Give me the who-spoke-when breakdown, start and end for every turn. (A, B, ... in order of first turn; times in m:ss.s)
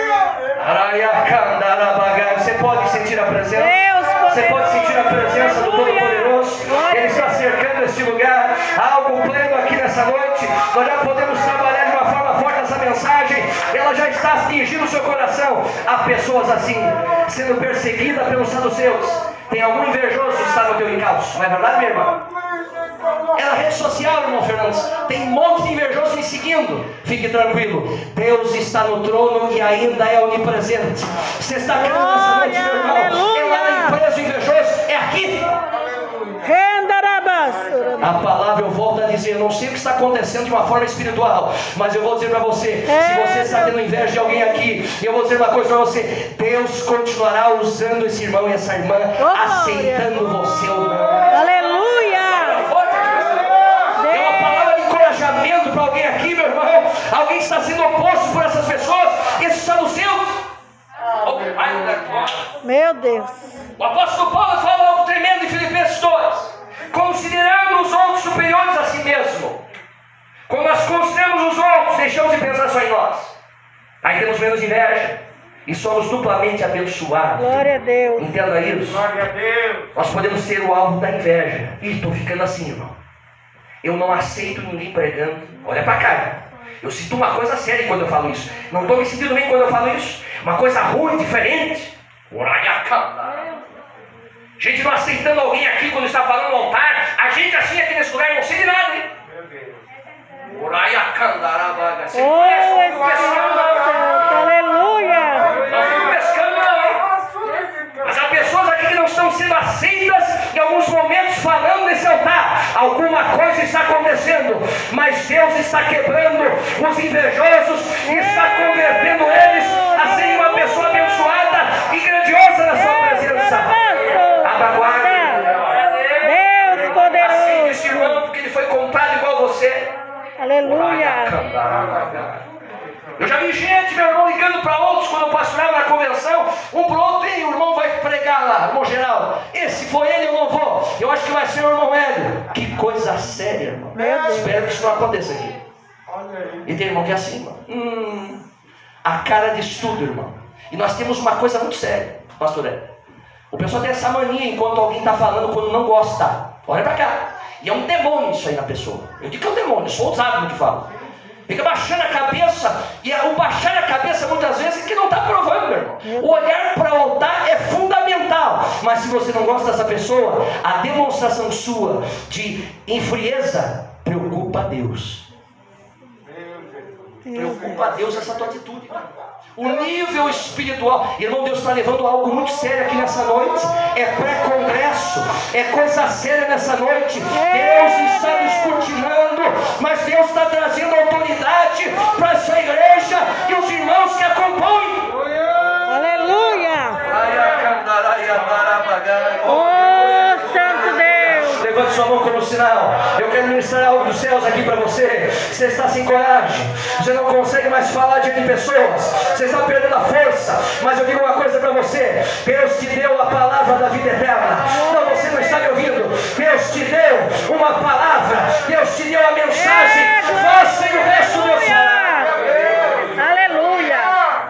0:00.6-0:03.7 A
0:03.5-0:07.3 B
0:04.2-0:22.2 A
0:23.3-0:35.5 A
0:31.8-0:34.0 B
0:36.4-0:38.1 B
0:38.0-0:51.4 A
0:42.9-0:43.7 B
0:49.2-0:50.1 B
0:51.3-0:52.6 B
0:52.4-1:00.4 A
0:54.0-0:54.4 B
1:01.2-1:02.5 A
1:02.6-1:03.4 B
1:03.8-1:09.6 A
1:10.5-1:13.4 A
1:14.0-1:19.1 A
1:17.4-1:18.3 B
1:19.9-1:22.9 A
1:23.8-1:33.5 A
1:34.6-1:39.1 A
1:40.5-1:44.2 A
1:42.1-1:45.6 B
1:45.5-1:47.1 A
1:48.0-2:03.8 A
1:58.1-1:58.5 B
2:02.9-2:05.5 B
2:04.4-2:05.5 A
2:06.1-2:08.1 B
2:07.2-2:09.9 A
2:10.4-2:11.3 B
2:10.6-2:12.4 A
2:13.2-2:25.6 A
2:24.0-2:24.5 B
2:26.6-2:28.4 A
2:29.0-2:32.9 A
2:33.5-2:40.9 A
2:41.5-2:55.2 A
2:46.0-2:46.4 B
2:57.2-2:57.8 B
2:57.3-2:59.0 A
2:59.6-3:15.1 A
3:07.3-3:08.7 B
3:15.8-3:17.0 B
3:17.0-3:42.4 A
3:19.4-3:21.6 B
3:39.7-3:42.3 B
3:43.1-3:44.2 B